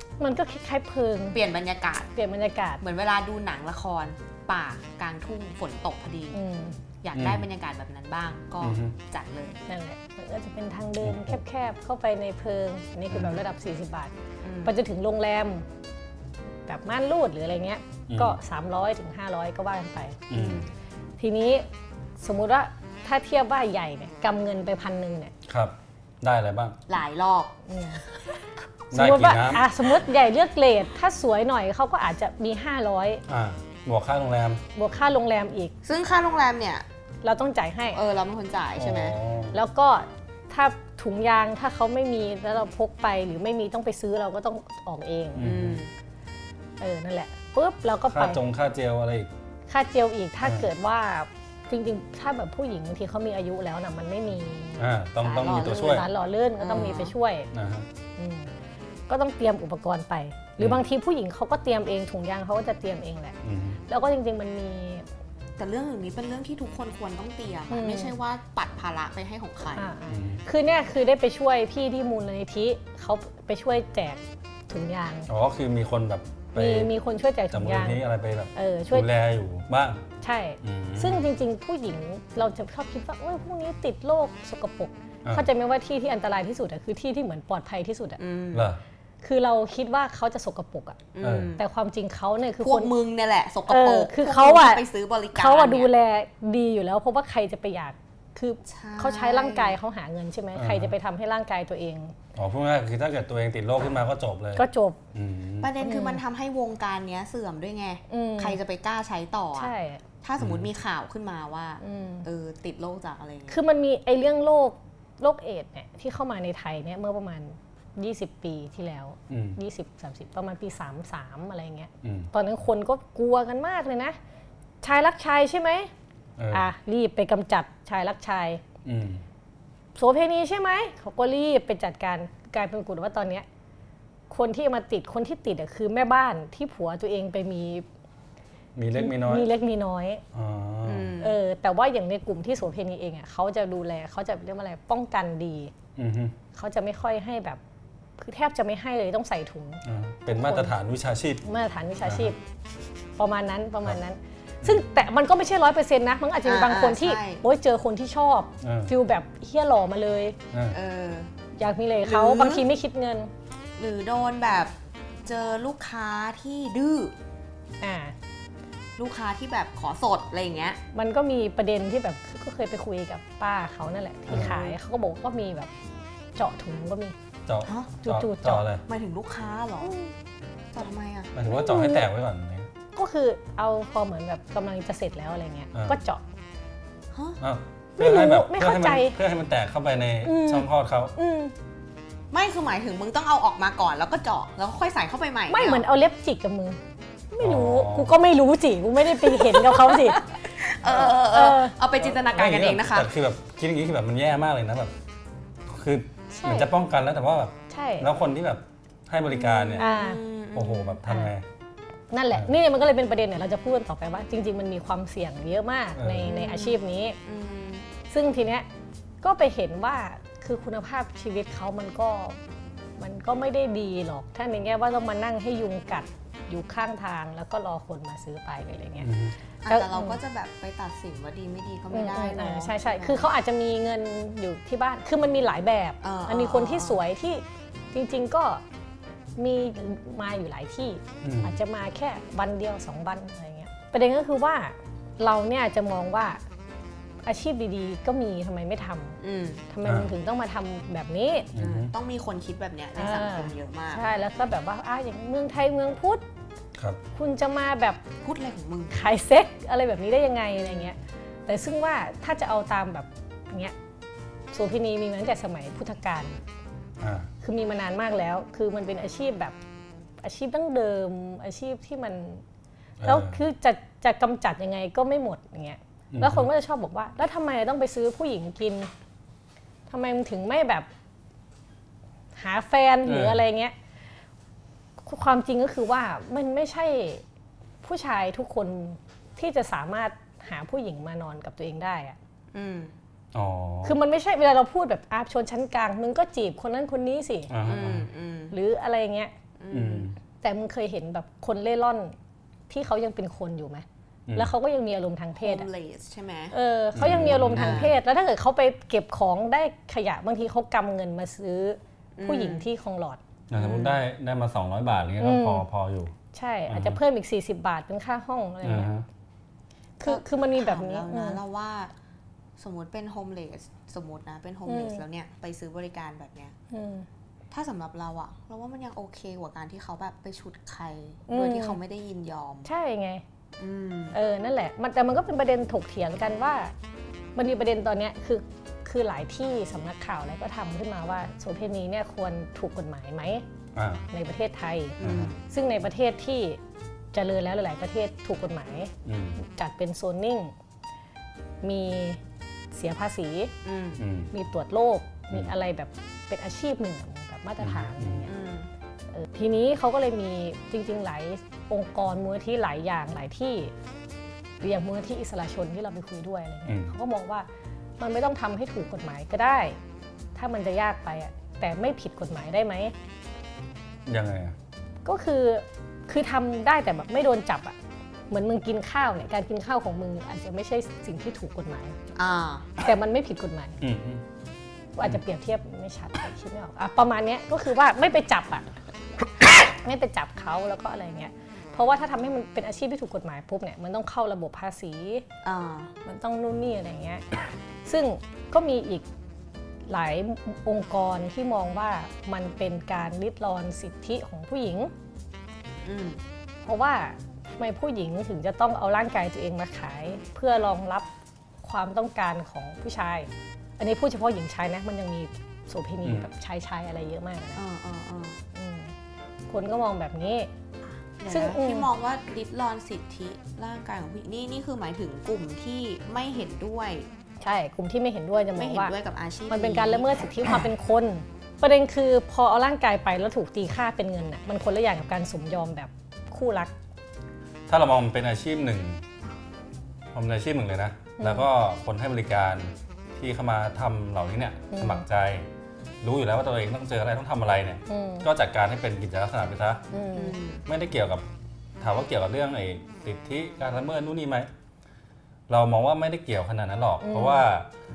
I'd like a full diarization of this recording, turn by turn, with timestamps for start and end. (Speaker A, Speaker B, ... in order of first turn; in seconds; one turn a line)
Speaker A: 0.2-1.4
Speaker B: 1.3-2.1
Speaker A: 2.1-2.8
Speaker B: 2.8-6.4
Speaker A: 6.3-6.8
Speaker B: 7.0-9.6
Speaker C: 7.1-7.5
Speaker C: 8.6-8.9
Speaker A: 9.7-15.6
Speaker C: 11.0-11.4
Speaker C: 13.1-13.4
Speaker B: 14.4-14.8
Speaker A: 16.7-20.6
Speaker C: 18.1-18.4
Speaker C: 20.3-20.7
Speaker B: 20.4-20.7
Speaker A: 21.2-21.6
Speaker A: 22.2-25.3
Speaker C: 25.5-26.8
Speaker B: 26.9-27.5
Speaker A: 27.7-28.0
Speaker C: 28.9-29.6
Speaker A: 28.9-33.2
Speaker C: 33.3-34.6
Speaker A: 34.7-35.7
Speaker B: 35.8-36.8
Speaker A: 37.2-38.0
Speaker B: 37.9-39.1
Speaker C: 38.8-39.6
Speaker A: 39.5-45.5
Speaker C: 45.4-45.8
Speaker B: 45.4-45.9
Speaker A: 46.8-48.4
Speaker C: 48.1-49.3
Speaker A: 49.7-54.9
Speaker C: 50.4-50.7
Speaker C: 54.8-56.1
Speaker B: 55.2-56.0
Speaker A: 55.6-57.5
Speaker B: 56.6-57.1
Speaker C: 57.5-57.9
Speaker A: 58.2-58.5
Speaker A: 59.1-63.4
Speaker C: 63.4-63.8
Speaker A: 63.9-65.0
Speaker B: 65.6-69.9
Speaker A: 67.7-68.2
Speaker A: 69.7-75.3
Speaker C: 70.1-70.4
Speaker C: 75.3-76.9
Speaker A: 76.5-78.0
Speaker C: 77.5-80.0
Speaker A: 78.5-79.1
Speaker A: 80.2-88.2
Speaker C: 80.6-81.3
Speaker B: 88.2-88.7
Speaker C: 88.5-88.8
Speaker A: 89.2-91.0
Speaker B: 91.1-91.6
Speaker C: 91.2-91.5
Speaker A: 91.5-92.9
Speaker B: 92.6-95.9
Speaker A: 93.7-102.1
Speaker B: 98.7-99.8
Speaker C: 100.5-100.9
Speaker C: 102.3-105.7
Speaker A: 104.5-105.0
Speaker B: 105.6-113.6
Speaker A: 105.8-106.2
Speaker A: 108.1-108.6
Speaker A: 109.5-110.0
Speaker C: 110.4-110.7
Speaker A: 111.8-112.3
Speaker A: 113.5-124.2
Speaker C: 119.3-119.6
Speaker C: 122.0-122.3
Speaker A: 124.8-125.9
Speaker C: 126.4-126.7
Speaker A: 126.5-128.6
Speaker C: 128.8-129.2
Speaker A: 129.9-133.4
Speaker A: 134.3-137.8
Speaker C: 138.8-139.5
Speaker A: 138.9-140.2
Speaker C: 140.3-141.1
Speaker B: 140.8-141.4
Speaker A: 141.2-145.7
Speaker C: 145.9-146.3
Speaker A: 146.5-147.6
Speaker A: 148.2-150.7
Speaker C: 149.8-151.4
Speaker A: 151.4-152.4
Speaker C: 152.0-152.3
Speaker A: 153.2-160.4
Speaker B: 154.8-155.1
Speaker B: 156.4-157.4
Speaker C: 158.6-158.9
Speaker C: 160.5-160.8
Speaker B: 160.7-161.3
Speaker A: 161.6-163.3
Speaker B: 162.0-162.7
Speaker B: 163.8-167.1
Speaker A: 167.8-168.1
Speaker B: 169.0-170.8
Speaker A: 170.9-175.7
Speaker C: 174.3-174.5
Speaker B: 174.3-174.8
Speaker A: 176.4-177.1
Speaker C: 177.5-178.8
Speaker B: 177.6-177.9
Speaker A: 178.0-178.7
Speaker B: 178.9-179.9
Speaker A: 179.8-180.1
Speaker B: 180.7-181.3
Speaker C: 181.3-182.7
Speaker A: 181.4-182.1
Speaker A: 182.9-186.2
Speaker C: 185.7-186.0
Speaker B: 187.1-187.4
Speaker C: 187.4-191.1
Speaker A: 188.0-189.2
Speaker A: 190.2-191.5
Speaker B: 192.3-195.8
Speaker A: 195.5-196.8
Speaker A: 197.3-200.3
Speaker C: 197.4-198.2
Speaker B: 199.1-203.1
Speaker A: 200.8-201.8
Speaker C: 202.0-204.9
Speaker C: 205.7-209.9
Speaker A: 206.3-206.7
Speaker A: 207.7-208.1
Speaker B: 209.2-211.0
Speaker A: 209.8-210.2
Speaker C: 210.5-211.4
Speaker A: 211.1-211.3
Speaker A: 212.1-217.2
Speaker C: 215.9-216.3
Speaker B: 216.2-217.9
Speaker A: 218.1-218.7
Speaker A: 219.2-222.4
Speaker A: 223.0-229.1
Speaker C: 229.0-229.3
Speaker B: 229.6-233.3
Speaker A: 229.7-230.2
Speaker A: 231.9-238.6
Speaker B: 236.0-237.0
Speaker A: 239.4-246.4
Speaker C: 241.2-241.6
Speaker A: 247.2-249.2
Speaker B: 249.2-249.6
Speaker A: 249.7-251.5
Speaker C: 249.8-250.1
Speaker C: 251.5-251.9
Speaker B: 251.6-254.0
Speaker A: 252.9-256.2
Speaker A: 257.1-258.0
Speaker B: 258.2-258.9
Speaker A: 258.9-263.7
Speaker B: 260.6-260.9
Speaker A: 264.5-266.4
Speaker C: 267.0-267.3
Speaker A: 267.4-269.6
Speaker A: 270.2-272.4
Speaker C: 273.0-273.4
Speaker A: 273.0-278.9
Speaker C: 276.1-276.5
Speaker A: 279.9-280.9
Speaker A: 282.4-283.7
Speaker C: 283.0-283.4
Speaker A: 285.0-287.2
Speaker A: 287.8-292.1
Speaker B: 292.5-292.9
Speaker C: 293.3-294.0
Speaker A: 293.8-297.5
Speaker C: 297.5-298.1
Speaker B: 297.6-298.5
Speaker A: 298.5-299.3
Speaker B: 299.6-300.1
Speaker C: 299.7-300.2
Speaker A: 300.4-302.1
Speaker A: 302.7-305.7
Speaker B: 305.4-306.5
Speaker A: 306.5-313.2
Speaker C: 306.9-308.0
Speaker B: 307.5-307.9
Speaker B: 312.1-312.7
Speaker C: 313.5-316.1
Speaker B: 313.6-314.0
Speaker A: 315.2-315.7
Speaker A: 316.3-318.9
Speaker C: 316.7-317.0
Speaker C: 318.6-319.0
Speaker A: 320.0-321.4
Speaker B: 320.0-321.9
Speaker B: 322.6-326.5
Speaker A: 324.6-325.0
Speaker A: 326.7-327.1
Speaker B: 327.5-332.7
Speaker A: 331.3-331.8
Speaker A: 332.6-333.2
Speaker B: 333.6-334.2
Speaker A: 334.1-336.7
Speaker A: 337.4-343.4
Speaker C: 343.7-344.1
Speaker A: 344.1-346.6
Speaker B: 345.0-345.4
Speaker C: 345.0-345.3
Speaker A: 347.1-350.5
Speaker C: 349.0-349.4
Speaker A: 351.6-352.2
Speaker A: 352.7-353.5
Speaker B: 353.6-354.0
Speaker C: 354.0-354.3
Speaker A: 354.3-358.3
Speaker C: 357.6-358.2
Speaker B: 358.2-358.7
Speaker A: 359.1-363.7
Speaker A: 364.6-367.5
Speaker C: 366.7-366.9
Speaker A: 368.0-369.8
Speaker A: 370.3-372.9
Speaker C: 374.1-374.6
Speaker A: 375.0-377.8
Speaker A: 378.3-382.0
Speaker B: 382.1-382.7
Speaker A: 382.8-383.8
Speaker C: 383.8-384.2
Speaker A: 384.9-388.7
Speaker A: 389.4-395.2
Speaker B: 395.4-395.9
Speaker A: 396.0-399.0
Speaker A: 399.9-404.9
Speaker B: 405.8-406.2
Speaker A: 406.6-411.1
Speaker A: 411.6-417.6
Speaker B: 417.5-418.4
Speaker A: 418.5-418.9
Speaker A: 419.5-420.5
Speaker B: 421.2-427.1
Speaker A: 421.3-421.9
Speaker A: 427.4-428.9
Speaker B: 428.6-430.6
Speaker A: 429.5-436.7
Speaker C: 437.7-439.0
Speaker C: 440.1-445.5
Speaker A: 441.2-441.5
Speaker A: 444.7-445.0
Speaker C: 446.0-449.8
Speaker A: 447.9-448.3
Speaker A: 449.9-450.4
Speaker B: 450.1-450.6
Speaker C: 450.7-451.2
Speaker C: 451.8-454.5
Speaker C: 455.5-457.7
Speaker A: 457.0-457.5